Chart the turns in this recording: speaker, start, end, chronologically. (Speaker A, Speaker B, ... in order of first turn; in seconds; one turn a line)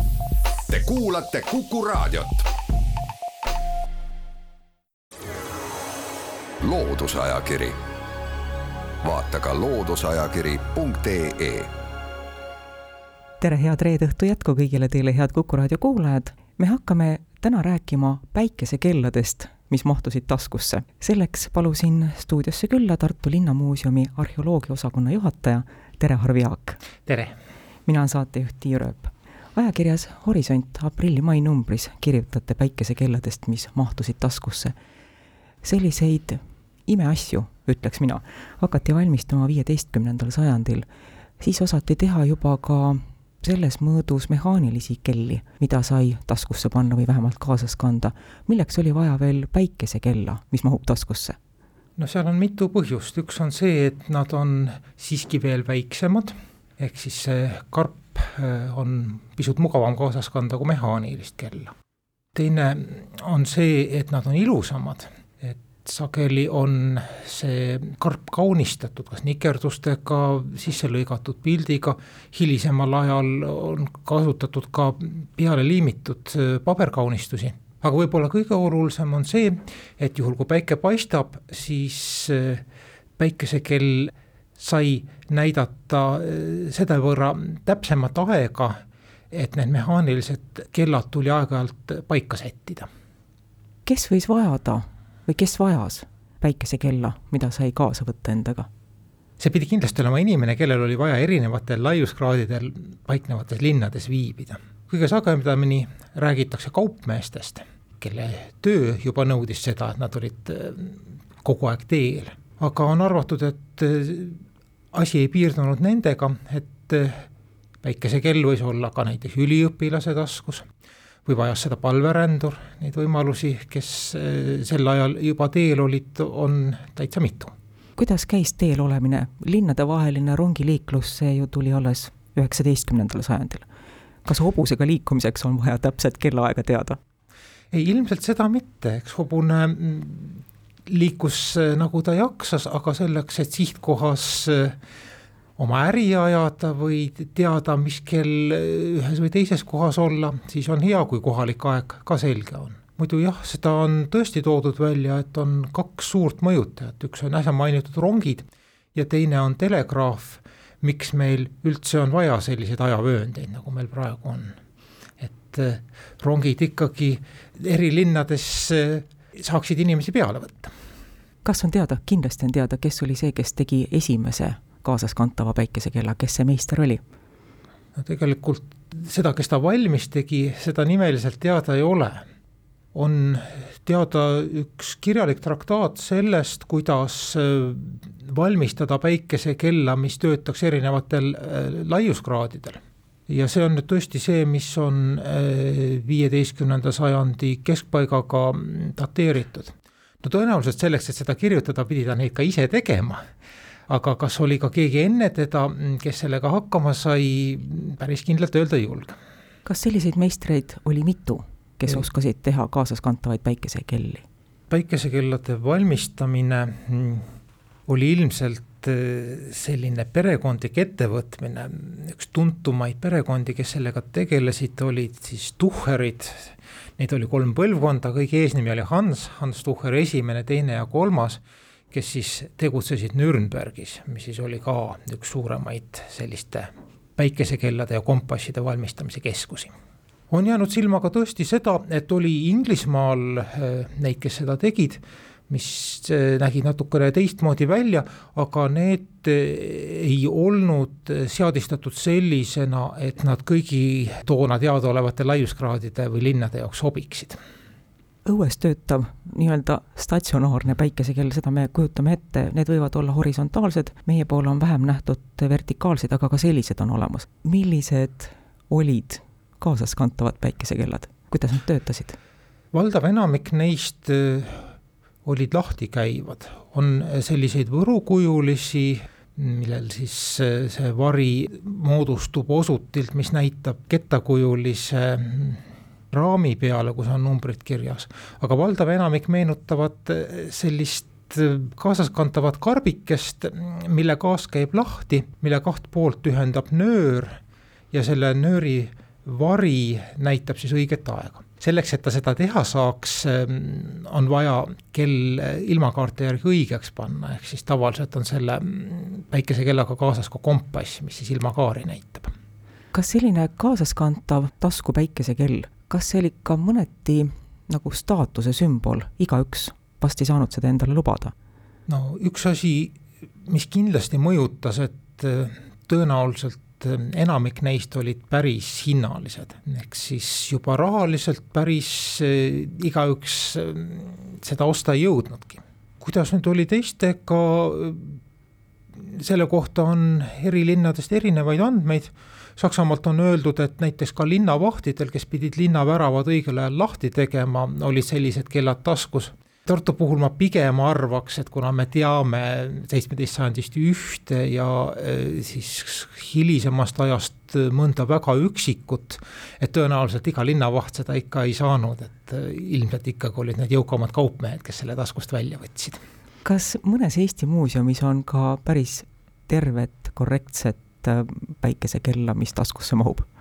Speaker A: 0.7-2.5
Speaker A: 6.6-7.8
Speaker A: 9.0-11.7
Speaker B: 13.4-26.8
Speaker C: 27.1-27.3
Speaker B: 27.9-34.8
Speaker B: 35.6-40.9
Speaker B: 41.4-51.4
Speaker C: 52.0-61.7
Speaker C: 62.4-82.6
Speaker C: 83.2-88.8
Speaker C: 89.3-92.9
Speaker B: 93.9-98.7
Speaker C: 99.4-114.4
Speaker C: 114.9-117.3
Speaker C: 117.8-120.7
Speaker C: 121.3-127.5
Speaker B: 128.0-133.7
Speaker B: 134.2-137.0
Speaker C: 137.7-144.8
Speaker C: 145.6-164.5
Speaker C: 165.2-170.7
Speaker B: 171.4-177.0
Speaker C: 178.0-182.2
Speaker C: 182.9-203.2
Speaker C: 203.9-209.2
Speaker B: 209.7-214.2
Speaker C: 214.7-217.2
Speaker C: 217.9-239.8
Speaker C: 240.3-257.4
Speaker B: 258.2-272.2
Speaker C: 272.7-274.7
Speaker C: 275.2-297.4
Speaker C: 297.9-312.3
Speaker B: 312.9-321.3
Speaker C: 321.9-338.2
Speaker C: 339.0-366.0
Speaker B: 366.4-373.3